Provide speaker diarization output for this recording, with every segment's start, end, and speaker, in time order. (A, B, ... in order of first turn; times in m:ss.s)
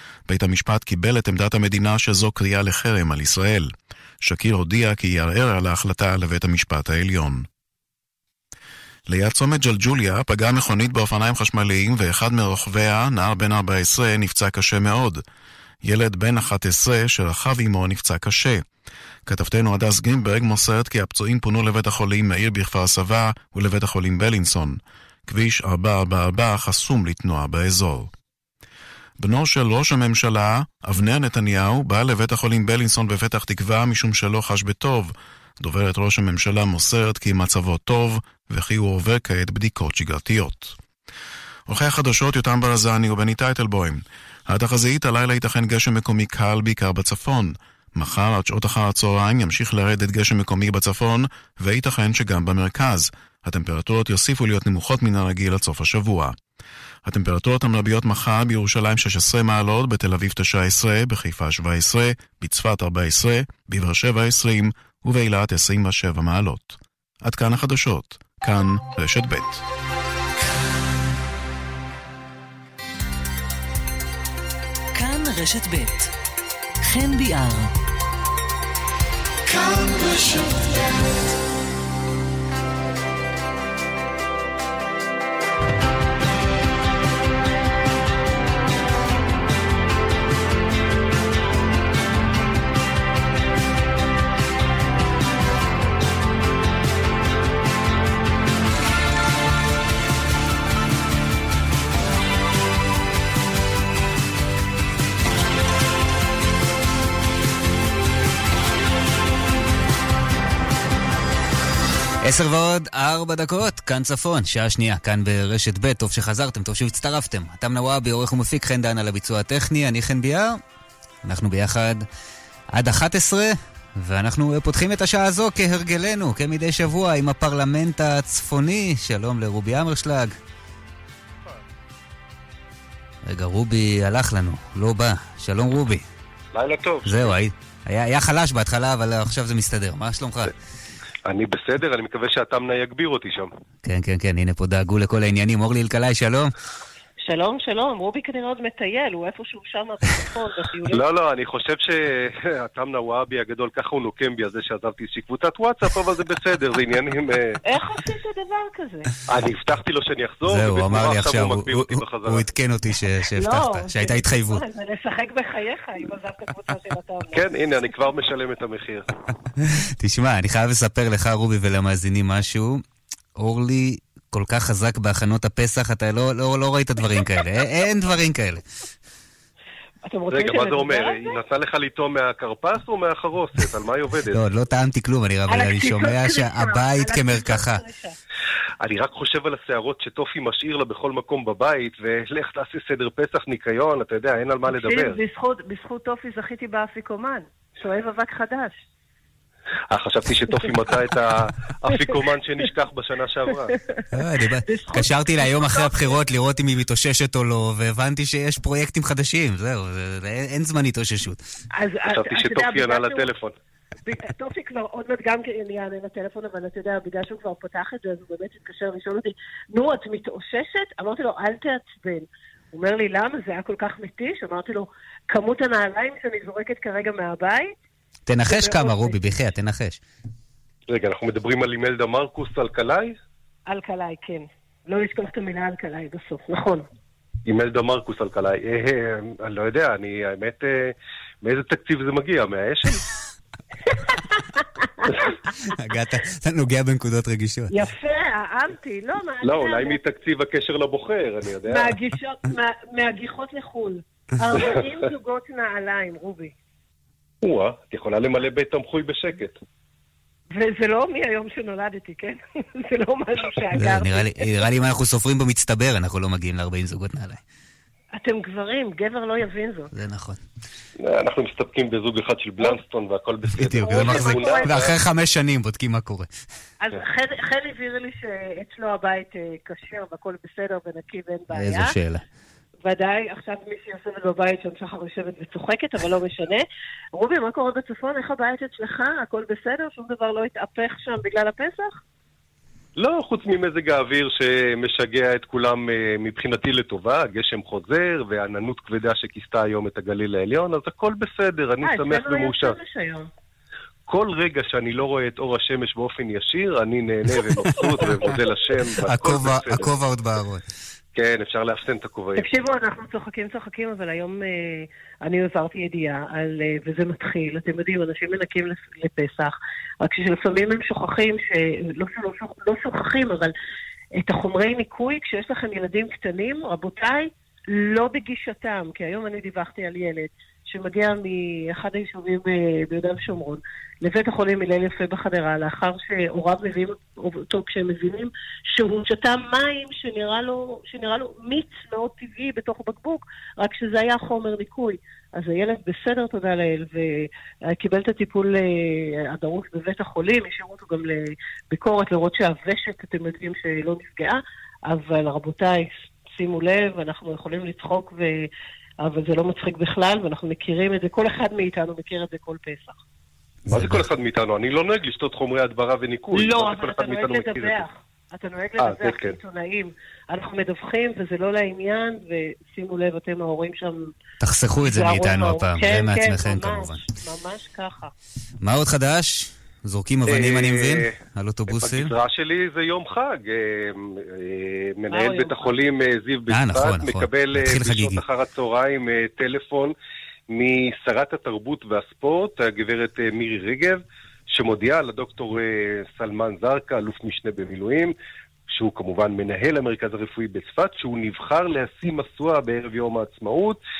0:00.3-0:03.7 A
0:04.2-0:07.4 A
0:09.1-0:15.2 A
0:15.8-0:18.6 A
0:19.2-0:28.1 A
0:29.2-0:40.8 A
0:41.7-0:56.4 A
0:57.0-1:09.6 A
1:14.9-1:16.1 B
1:16.8-1:17.7 B
1:52.2-2:00.6 C
2:01.2-2:02.0 C
2:02.7-2:10.3 C
2:13.2-2:16.0 C
2:16.5-2:17.2 D
2:17.0-2:20.5 C
2:21.2-2:23.5 D
2:23.8-2:26.5 C
2:27.2-2:31.0 E
2:30.9-2:37.6 D
2:37.6-2:39.1 E
2:39.3-2:42.4 D
2:40.5-2:44.6 C
2:43.4-2:47.4 E
2:47.3-2:49.1 D
2:50.0-2:52.8 C
2:53.4-2:58.6 C
3:00.0-3:01.4 E
3:00.3-3:04.4 D
3:04.3-3:07.8 C
3:05.5-3:08.1 E
3:08.8-3:15.2 D
3:14.7-3:18.8 E
3:19.9-3:23.7 D
3:24.1-3:31.4 C
3:24.6-3:26.2 E
3:31.8-3:33.3 E
3:32.1-3:33.5 D
3:34.0-3:47.7 E
3:48.3-3:50.0 C
3:48.5-3:49.2 E
3:50.9-3:53.2 D
3:53.7-3:56.8 E
3:57.4-4:03.0 D
4:05.7-4:07.7 C
4:07.7-4:10.0 E
4:09.4-4:12.0 D
4:11.7-4:16.5 E
4:14.6-4:14.8 D
4:17.4-4:19.6 D
4:20.5-4:24.4 E
4:23.7-4:27.4 C
4:28.1-4:29.9 E
4:29.9-4:30.4 C
4:31.0-4:35.0 D
4:33.6-4:36.3 C
4:33.8-4:34.8 E
4:36.8-4:41.9 E
4:41.5-4:42.2 C
4:42.8-4:52.0 E
4:53.0-5:02.8 D
5:01.8-5:03.3 E
5:04.1-5:09.9 D
5:09.0-5:10.6 C
5:11.2-5:12.5 D
5:12.4-5:23.5 E
5:24.2-5:58.5 E
5:59.0-6:03.0 E
6:03.7-6:07.8 D
6:03.7-6:04.0 C
6:06.3-6:14.1 E
6:08.8-6:09.4 D
6:14.4-6:17.0 C
6:14.8-6:18.1 E
6:18.6-6:22.1 C
6:20.3-6:21.1 D
6:21.7-6:29.9 D
6:25.1-6:25.8 E
6:26.5-6:28.2 C
6:30.5-6:38.1 D
6:38.7-6:43.8 D